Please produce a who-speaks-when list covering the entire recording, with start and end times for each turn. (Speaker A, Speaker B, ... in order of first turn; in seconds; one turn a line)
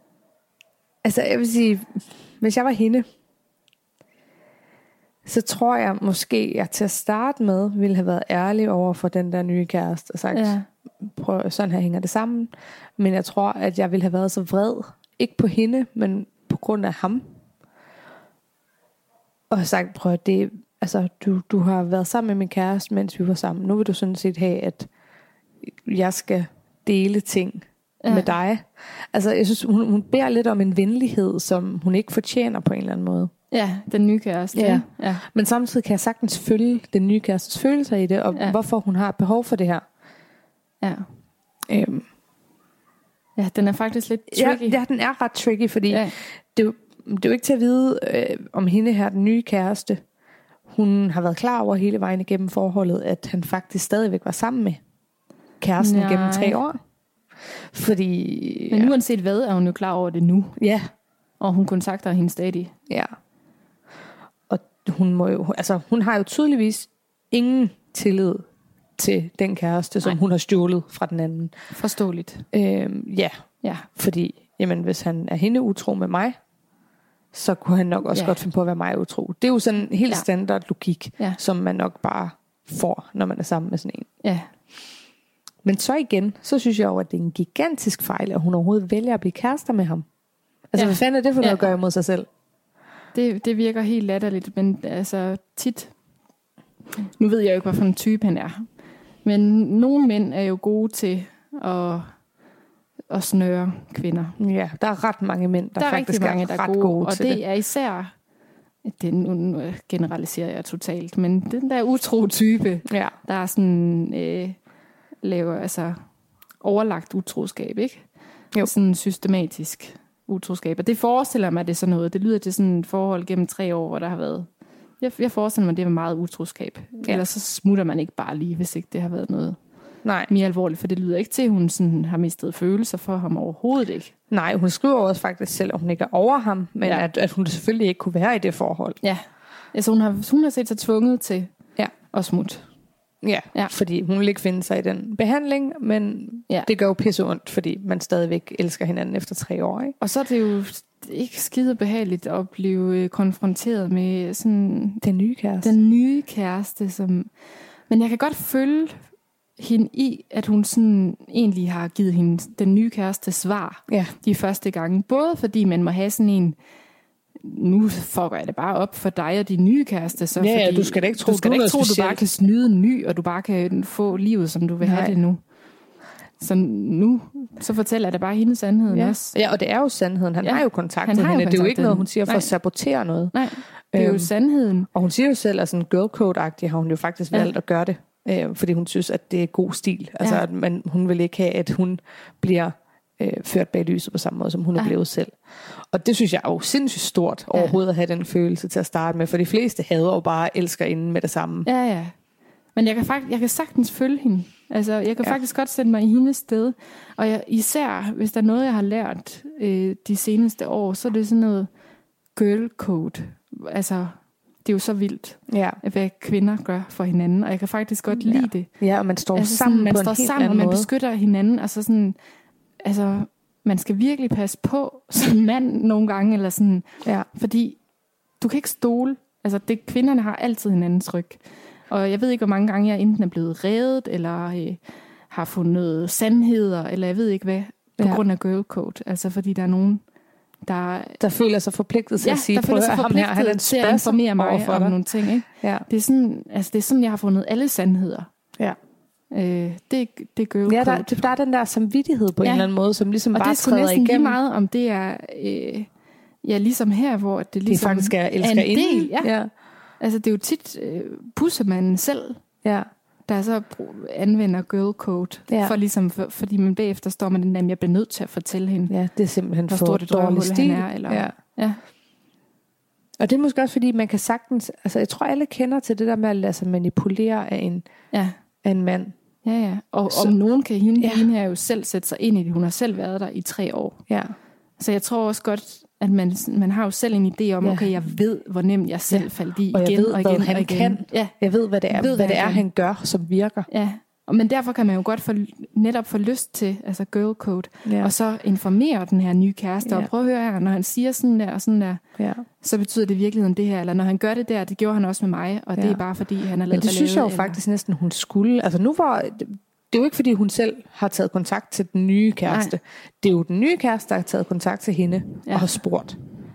Speaker A: 1.0-3.0
Speaker A: 5.2-17.2
Speaker B: 10.3-10.7
Speaker A: 19.5-24.9
Speaker A: 25.6-33.3
Speaker B: 28.0-28.3
Speaker B: 33.5-35.2
Speaker A: 34.5-39.8
Speaker A: 41.7-42.0
Speaker B: 43.4-44.8
Speaker A: 44.3-50.0
Speaker B: 45.9-46.1
Speaker A: 50.7-54.8
Speaker A: 55.6-56.8
Speaker B: 55.8-56.6
Speaker A: 57.7-58.9
Speaker B: 58.7-60.6
Speaker A: 60.6-60.9
Speaker B: 61.4-62.7
Speaker A: 64.5-68.5
Speaker A: 69.0-71.5
Speaker B: 71.7-72.5
Speaker A: 72.5-76.3
Speaker B: 73.6-73.9
Speaker A: 77.3-84.1
Speaker B: 78.1-78.4
Speaker B: 84.2-84.5
Speaker A: 85.6-90.0
Speaker A: 90.7-92.2
Speaker B: 90.8-91.7
Speaker B: 93.1-95.9
Speaker B: 97.2-98.7
Speaker B: 99.2-102.2
Speaker B: 103.1-104.4
Speaker A: 104.4-107.4
Speaker B: 105.8-108.1
Speaker B: 108.8-114.6
Speaker A: 112.8-113.1
Speaker B: 115.2-116.0
Speaker B: 116.6-118.1
Speaker B: 118.6-124.5
Speaker B: 125.0-129.6
Speaker A: 130.0-130.3
Speaker B: 130.3-134.1
Speaker A: 134.3-139.0
Speaker B: 139.0-142.7
Speaker A: 143.2-149.9
Speaker B: 150.0-155.0
Speaker A: 155.0-155.7
Speaker B: 155.6-157.3
Speaker B: 157.9-159.0
Speaker B: 159.6-166.6
Speaker A: 163.9-164.1
Speaker B: 167.4-175.4
Speaker A: 170.3-172.2
Speaker A: 174.8-175.2
Speaker B: 176.4-179.3
Speaker A: 178.9-183.3
Speaker B: 180.4-182.5
Speaker B: 183.3-184.9
Speaker A: 183.9-184.3
Speaker A: 184.9-201.7
Speaker B: 201.6-202.1
Speaker B: 202.7-211.7
Speaker B: 212.3-218.7
Speaker A: 215.5-215.8
Speaker A: 218.1-220.9
Speaker B: 219.3-222.2
Speaker B: 222.8-227.8
Speaker B: 228.4-240.0
Speaker B: 240.7-241.2
Speaker A: 241.2-245.0
Speaker B: 242.2-248.3
Speaker A: 245.5-245.8
Speaker B: 249.3-251.2
Speaker A: 250.7-254.4
Speaker B: 252.4-252.7
Speaker B: 253.3-255.9
Speaker B: 256.4-259.3
Speaker A: 257.7-259.5
Speaker B: 260.0-262.4
Speaker B: 263.3-268.9
Speaker A: 265.5-265.7
Speaker A: 268.9-271.3
Speaker B: 269.7-271.8
Speaker A: 273.2-277.8
Speaker A: 278.6-279.1
Speaker B: 279.4-284.0
Speaker A: 280.1-280.3
Speaker A: 281.0-281.3
Speaker A: 284.1-284.3
Speaker B: 284.8-291.4
Speaker A: 287.6-287.9
Speaker A: 289.1-293.7
Speaker B: 291.9-292.6
Speaker B: 293.7-302.0
Speaker A: 297.8-298.1
Speaker A: 302.2-302.4
Speaker B: 302.6-307.6
Speaker A: 305.8-306.0
Speaker A: 306.7-316.2
Speaker B: 312.5-312.7
Speaker B: 315.4-315.8